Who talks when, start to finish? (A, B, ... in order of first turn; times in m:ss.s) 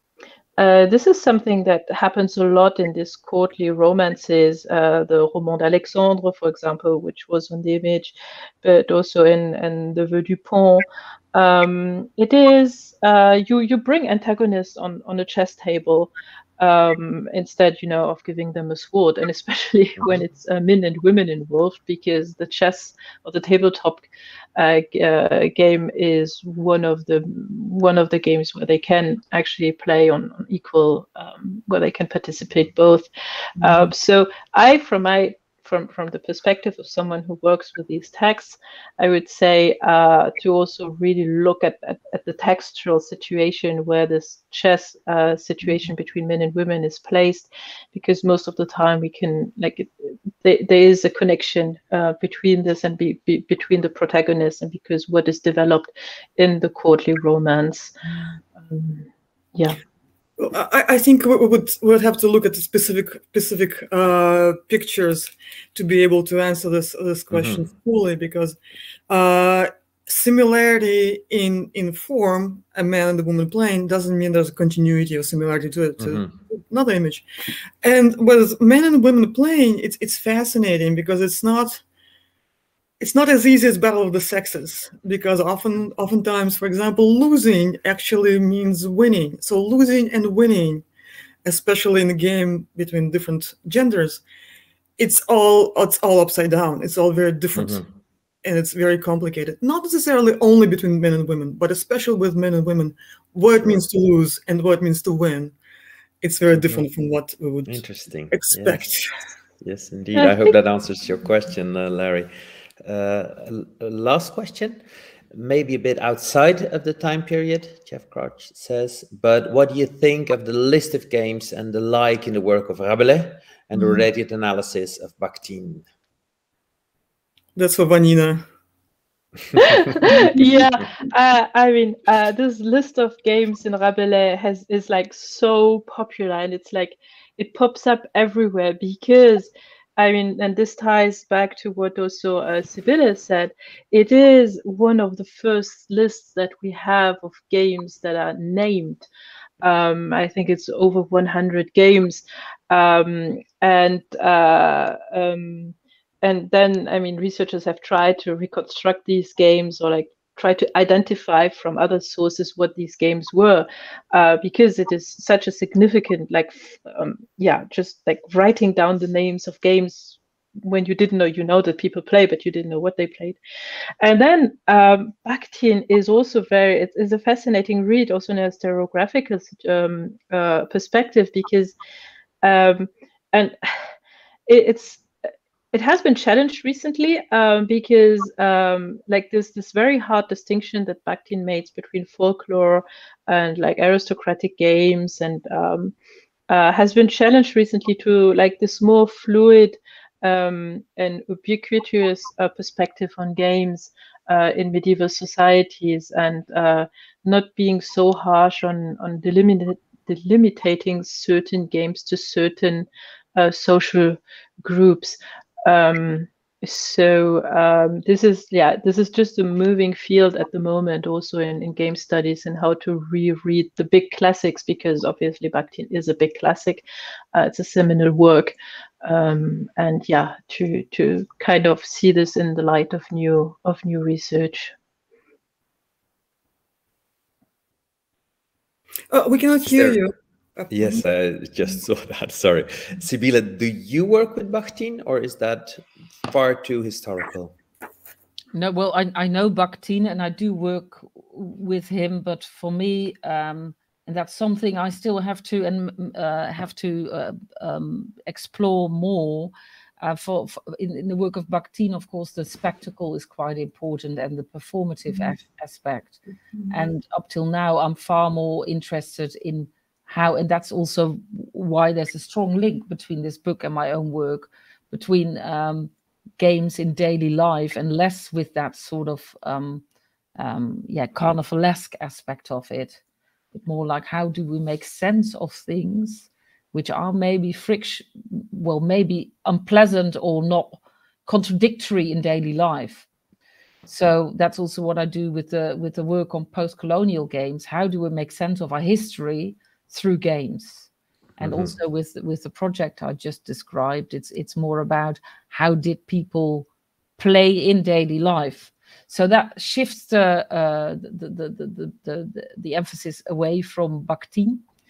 0:00.6-0:33.1 A
0:33.6-0:57.9 A
0:58.6-0:59.8 A
1:00.4-1:08.6 B
1:07.3-1:07.6 C
1:09.1-1:17.2 B
1:16.0-1:16.3 C
1:17.8-1:21.8 B
1:23.0-1:30.8 B
1:31.4-1:34.2 B
1:35.0-1:37.8 B
1:37.5-1:37.9 C
1:38.4-1:45.6 B
1:46.2-1:49.1 B
1:46.5-1:46.8 C
1:47.6-1:48.8 C
1:49.6-2:05.8 C
1:50.1-1:50.5 A
2:03.7-2:04.0 B
2:07.6-2:08.4 B
2:09.6-2:29.0 A
2:29.6-2:53.4 A
2:54.0-3:01.7 A
3:02.4-3:03.8 A
3:04.5-3:05.0 A
3:05.7-3:15.9 A
3:16.5-3:54.7 A
3:59.1-4:01.0 B
3:59.7-4:00.0 C
4:00.7-4:07.6 C
4:08.5-4:39.8 D
4:25.1-4:25.4 B
4:40.4-4:43.0 D
4:43.5-4:53.0 D
4:53.9-5:00.9 D
5:01.4-5:01.7 C
5:01.4-5:14.6 D